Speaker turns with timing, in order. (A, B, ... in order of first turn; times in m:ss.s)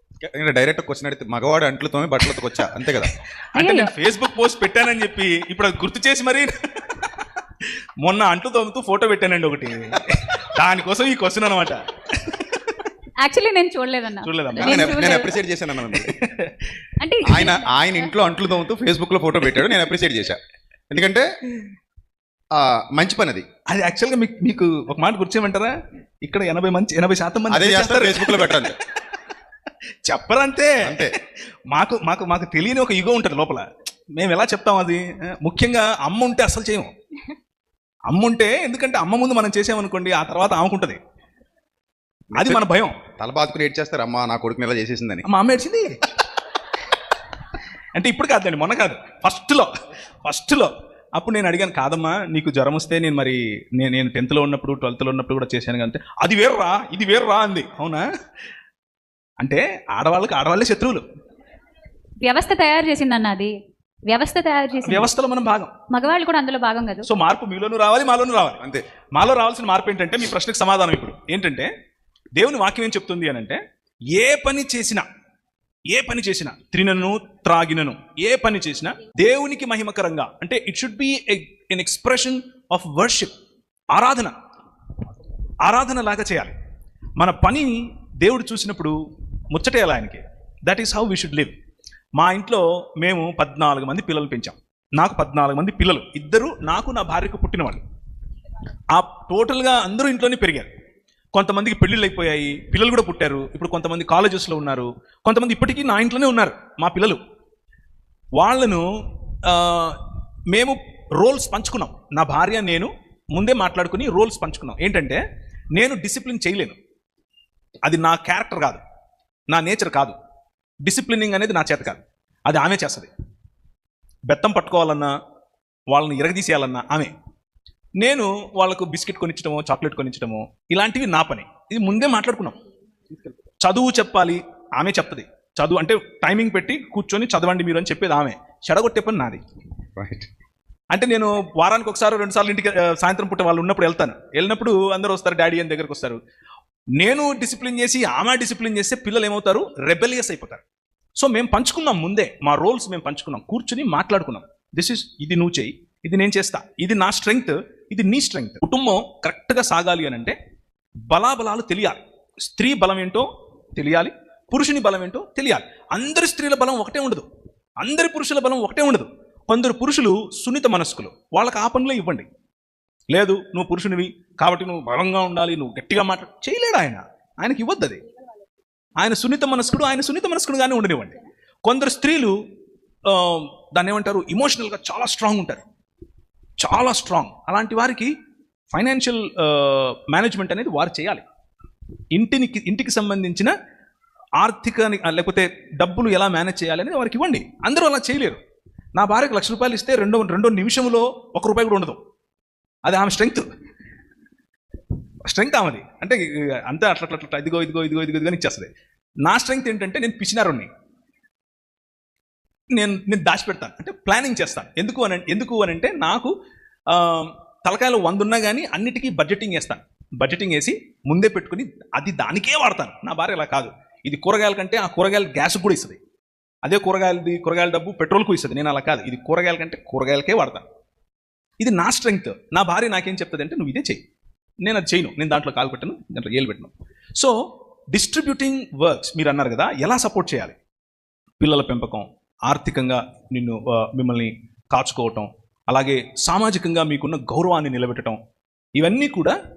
0:00.2-0:03.1 A
0:03.6-0:07.1 B
0:03.6-0:03.9 C
0:08.0-0:12.9 B
0:13.2-0:15.4 C
0:14.2-0:15.1 B
0:14.6-0:16.1 A
0:15.9-0:16.6 B
0:17.0-0:18.1 C
0:17.3-0:20.4 A
0:20.9-0:21.3 A
0:22.6-0:23.4 A
0:23.7-0:28.7 B
0:27.5-0:28.8 A
0:30.1-0:31.2 B
0:30.8-0:31.1 A
0:31.7-0:36.9 B
0:38.1-0:41.0 B
0:42.3-0:42.6 A
0:42.4-0:43.0 B
0:43.2-0:45.2 A
0:45.2-0:46.0 B
0:47.9-0:49.7 B
0:50.2-0:58.0 B
0:59.4-1:01.0 B
1:02.2-1:03.5 C
1:04.1-1:05.1 C
1:04.8-1:05.7 B
1:05.9-1:07.1 C
1:07.1-1:11.7 B
1:12.4-1:13.6 B
1:14.1-1:15.0 B
1:15.9-1:23.3 B
1:23.9-1:24.4 B
1:25.6-1:26.5 B
1:27.2-1:29.0 B
1:29.5-1:31.6 B
1:32.2-1:37.8 B
1:38.9-1:40.7 B
1:41.3-1:47.2 B
1:48.4-1:48.8 B
1:49.5-1:50.0 B
1:50.5-1:55.2 B
1:55.7-1:56.8 B
1:57.8-1:58.8 B
1:59.5-2:00.2 B
2:00.8-2:03.1 B
2:04.3-2:05.1 B
2:05.9-2:07.1 B
2:08.0-2:12.6 B
2:13.6-2:19.4 B
2:20.0-2:20.3 A
2:20.9-2:26.2 B
2:27.0-2:30.6 B
2:31.2-2:40.4 B
2:41.1-2:47.3 B
2:47.8-2:52.3 B
2:53.1-2:58.0 B
2:59.0-3:02.3 B
3:03.1-3:05.6 B
3:06.6-3:08.1 B
3:08.7-3:11.2 B
3:12.1-3:13.5 B
3:14.4-3:18.4 B
3:19.0-3:22.0 B
3:22.8-3:23.5 B
3:25.3-3:28.7 B
3:29.2-3:30.7 B
3:32.7-3:36.3 B
3:36.9-3:46.0 B
3:46.6-3:50.6 B
3:51.6-3:54.0 B
3:54.6-3:57.3 B
3:57.9-4:00.6 B
4:01.4-4:08.2 B
4:08.8-4:09.4 B